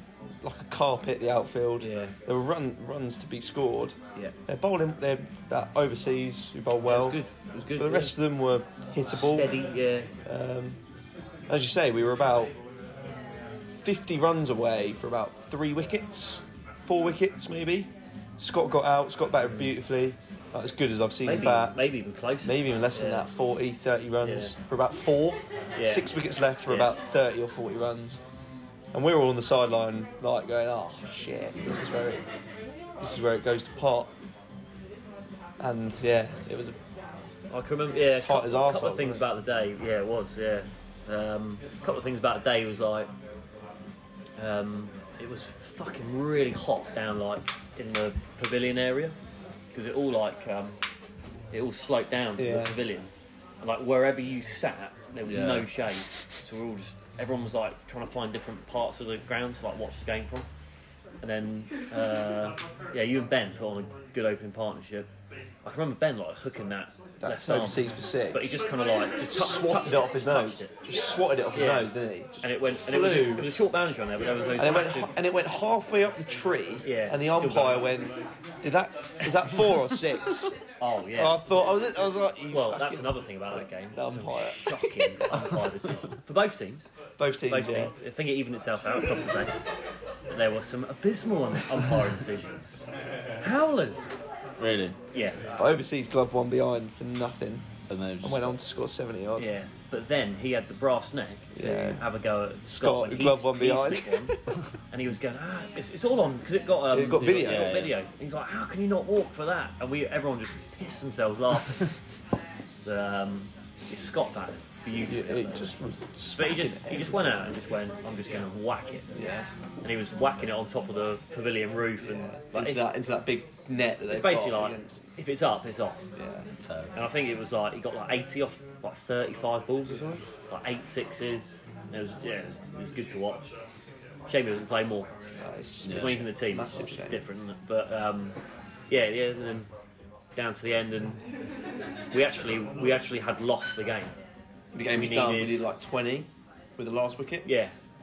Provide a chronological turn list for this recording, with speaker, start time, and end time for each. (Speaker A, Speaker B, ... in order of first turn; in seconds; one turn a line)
Speaker A: 0.4-7.2
Speaker B: 1.8-2.1
Speaker B: 6.9-8.2
Speaker A: 7.8-9.6
Speaker B: 9.1-10.1
Speaker A: 10.3-10.8
Speaker A: 11.5-12.5
Speaker A: 13.8-21.8
Speaker B: 19.5-19.7
Speaker B: 21.3-23.3
Speaker A: 22.4-28.2
Speaker B: 24.2-24.5
Speaker B: 25.8-26.1
Speaker B: 26.7-26.9
Speaker A: 28.9-32.2
Speaker A: 33.0-34.1
Speaker A: 35.6-36.8
Speaker B: 37.5-43.1
Speaker A: 38.0-39.3
Speaker B: 44.4-49.2
Speaker B: 49.7-50.8
Speaker B: 51.5-53.1
Speaker A: 52.4-52.8
Speaker B: 53.6-60.5
Speaker C: 55.3-55.7
Speaker B: 61.2-65.1
Speaker B: 65.7-70.8
Speaker A: 67.2-68.7
Speaker A: 69.2-73.5
Speaker B: 71.5-71.9
Speaker B: 72.4-75.1
Speaker A: 74.6-80.5
Speaker B: 76.8-77.9
Speaker B: 80.8-81.4
Speaker A: 81.2-85.1
Speaker B: 82.5-86.9
Speaker A: 87.2-87.9
Speaker B: 87.5-89.6
Speaker B: 90.3-92.8
Speaker B: 93.4-94.1
Speaker C: 94.6-95.0
Speaker B: 95.1-95.4
Speaker A: 95.6-97.7
Speaker C: 97.9-98.6
Speaker A: 98.2-99.5
Speaker B: 99.4-104.3
Speaker A: 101.5-102.0
Speaker A: 102.7-104.3
Speaker B: 104.9-111.9
Speaker A: 106.9-107.8
Speaker C: 107.2-108.0
Speaker B: 112.8-115.8
Speaker A: 115.1-117.5
Speaker B: 116.3-119.1
Speaker A: 119.1-119.5
Speaker B: 119.8-122.8
Speaker A: 122.0-125.0
Speaker B: 124.1-126.0
Speaker A: 126.2-126.5
Speaker C: 126.6-126.9
Speaker B: 126.9-133.5
Speaker A: 129.8-130.2
Speaker B: 134.3-135.1
Speaker A: 135.4-137.2
Speaker C: 135.9-136.2
Speaker B: 135.9-138.4
Speaker B: 138.9-139.7
Speaker B: 140.3-141.2
Speaker B: 142.1-144.1
Speaker A: 144.7-147.5
Speaker B: 144.9-145.6
Speaker B: 147.4-147.7